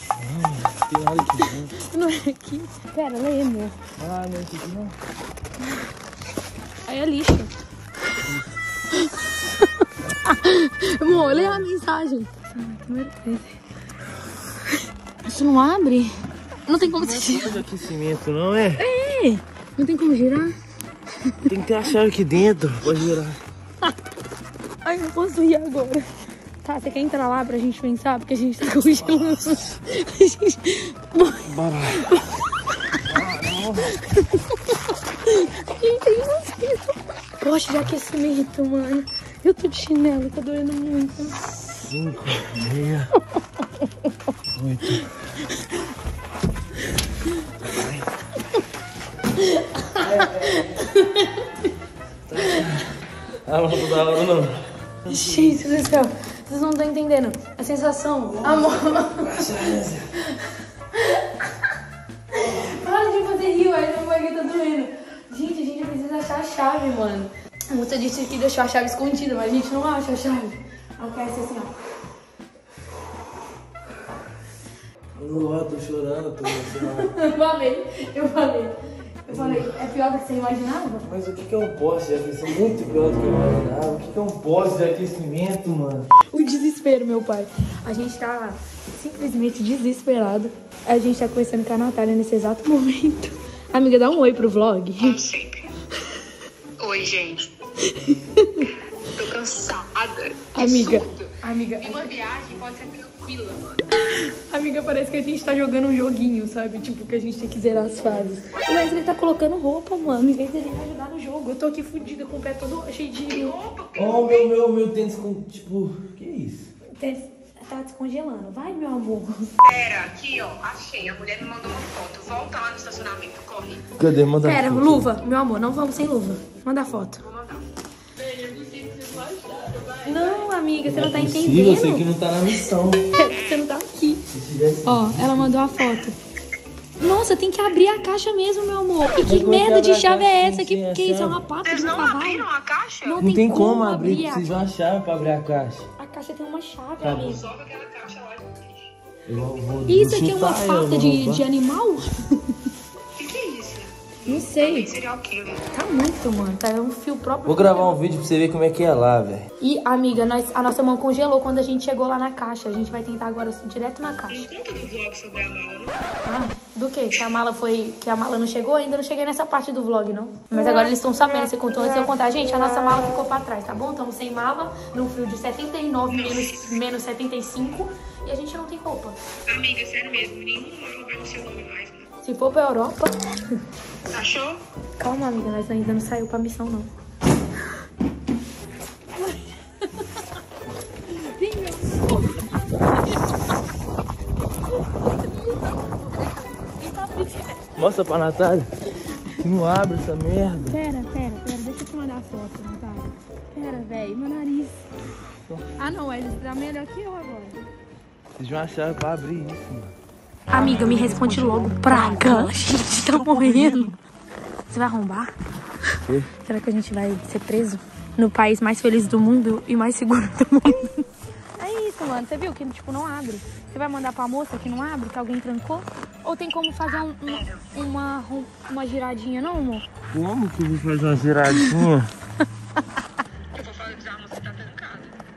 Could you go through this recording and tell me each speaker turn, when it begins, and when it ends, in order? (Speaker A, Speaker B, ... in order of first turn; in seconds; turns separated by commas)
Speaker A: 0.2-1.7, Speaker B: 1.8-3.8, Speaker A: 4.0-4.9, Speaker B: 6.8-7.5, Speaker A: 8.2-8.5, Speaker B: 8.9-9.7, Speaker B: 10.2-13.6, Speaker A: 11.1-11.7, Speaker B: 15.2-16.1, Speaker B: 16.6-17.6, Speaker A: 16.8-18.8, Speaker B: 18.8-20.5, Speaker A: 21.4-23.4, Speaker B: 24.8-26.1, Speaker B: 26.6-32.3, Speaker A: 31.4-32.1, Speaker A: 33.1-34.0, Speaker B: 34.1-41.4, Speaker A: 41.8-43.1, Speaker B: 43.4-44.1, Speaker A: 44.5-45.2, Speaker A: 47.6-48.1, Speaker B: 49.4-51.7, Speaker A: 50.0-50.9, Speaker A: 52.2-52.9, Speaker B: 52.4-52.6, Speaker A: 53.4-56.0, Speaker B: 55.1-59.5, Speaker A: 58.4-60.1, Speaker B: 60.9-61.5, Speaker B: 62.4-71.7, Speaker A: 62.4-62.7, Speaker A: 75.1-77.1, Speaker B: 77.1-78.7, Speaker B: 79.2-81.0, Speaker A: 79.3-79.7, Speaker A: 81.0-86.1, Speaker B: 86.3-95.2, Speaker C: 95.0-95.7, Speaker C: 96.8-97.5, Speaker B: 97.8-98.7, Speaker C: 99.1-103.9, Speaker B: 100.5-102.1, Speaker B: 104.1-113.5, Speaker C: 113.3-114.5, Speaker A: 113.9-116.7, Speaker B: 117.0-119.4, Speaker C: 119.6-123.9, Speaker A: 124.0-125.1, Speaker B: 124.4-127.2, Speaker C: 127.3-127.6, Speaker C: 128.3-130.4, Speaker B: 130.0-132.0, Speaker A: 130.8-133.1, Speaker B: 133.2-134.2, Speaker A: 134.3-135.5, Speaker B: 134.8-136.2, Speaker B: 137.0-142.5, Speaker A: 139.2-141.4, Speaker C: 141.6-143.2, Speaker B: 143.0-144.5, Speaker A: 143.2-145.9, Speaker B: 146.0-147.4, Speaker A: 147.0-147.4, Speaker C: 147.0-148.6, Speaker A: 149.2-151.5, Speaker B: 149.9-152.5, Speaker C: 153.2-155.6, Speaker B: 154.2-154.9, Speaker B: 155.7-157.9, Speaker A: 157.4-159.5, Speaker B: 159.6-164.4, Speaker C: 164.3-166.1, Speaker B: 166.2-179.2, Speaker C: 176.1-176.8, Speaker C: 179.5-182.0, Speaker B: 182.2-183.2, Speaker C: 184.1-184.6, Speaker B: 185.0-186.9, Speaker B: 191.2-193.2, Speaker B: 196.8-197.6, Speaker A: 197.8-198.7, Speaker A: 199.4-200.8, Speaker B: 200.7-204.8, Speaker B: 205.8-207.6, Speaker A: 208.3-209.9, Speaker B: 210.5-213.9, Speaker A: 210.6-213.9, Speaker B: 214.7-215.3, Speaker B: 216.4-221.1, Speaker B: 221.6-229.8, Speaker C: 227.2-227.7, Speaker A: 230.1-232.1, Speaker C: 233.5-235.1